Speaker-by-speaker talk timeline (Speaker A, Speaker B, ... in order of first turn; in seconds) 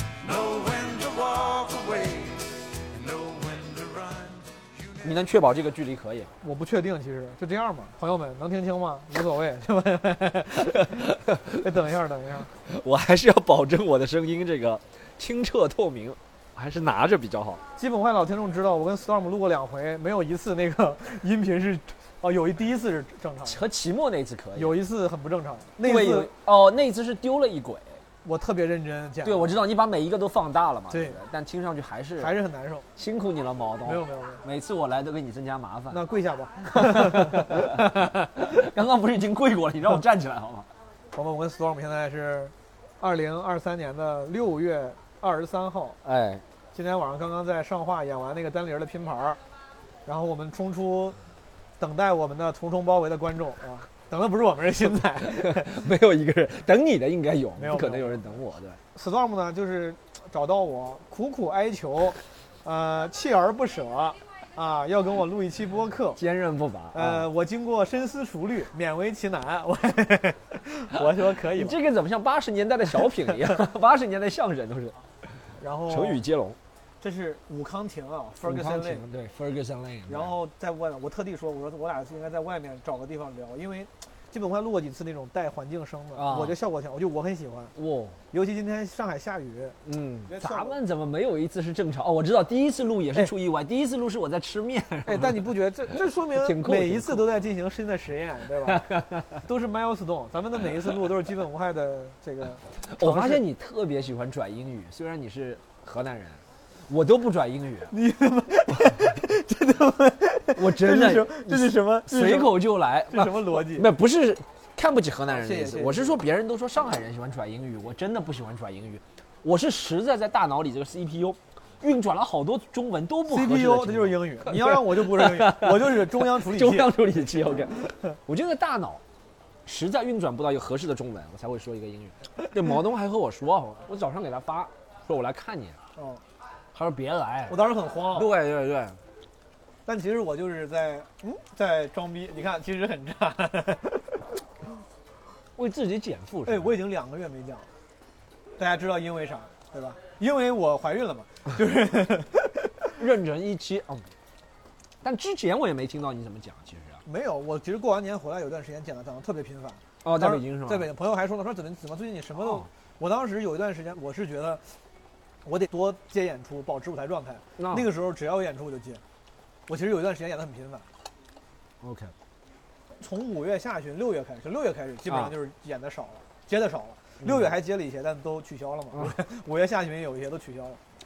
Speaker A: 0.2-5.4
Speaker B: 5.0-6.3, 10.8-11.6, 12.7-17.6, 23.4-24.8, 25.8-28.0, 29.2-32.3, 33.0-36.0, 36.7-40.7, 46.0-46.4, 55.3-58.8, 66.2-67.3, 71.3-75.0, 75.9-76.6, 78.4-80.3, 86.2-86.6, 87.8-88.2, 89.8-95.5, 96.3-97.3, 98.7-99.4, 102.9-107.9, 110.5-129.0, 129.7-135.8, 136.7-139.0, 145.6-146.8, 153.0-154.1, 155.0-157.0, 160.0-160.9, 162.4-162.7, 167.6-167.9, 171.8-172.1, 177.2-177.5
Speaker C: 6.4-11.0, 11.6-12.5, 17.8-23.6, 24.6-26.3, 28.2-29.6, 30.9-31.2, 32.2-32.9, 33.8-34.4, 35.9-37.9, 41.1-46.0, 46.7-49.4, 50.0-51.2, 51.8-55.9, 57.6-58.3, 58.9-66.2, 66.9-71.8, 75.6-76.2, 77.0-79.0, 80.1-87.7, 88.3-89.8, 90.3-90.8, 95.0-98.9, 99.4-103.4, 107.9-113.9, 115.3-116.2, 123.3-126.9, 136.0-136.2, 137.5-138.3, 139.8-144.2, 146.4-147.7, 148.6-152.9, 157.0-164.6, 165.4-169.0, 169.7-170.8, 173.0-180.8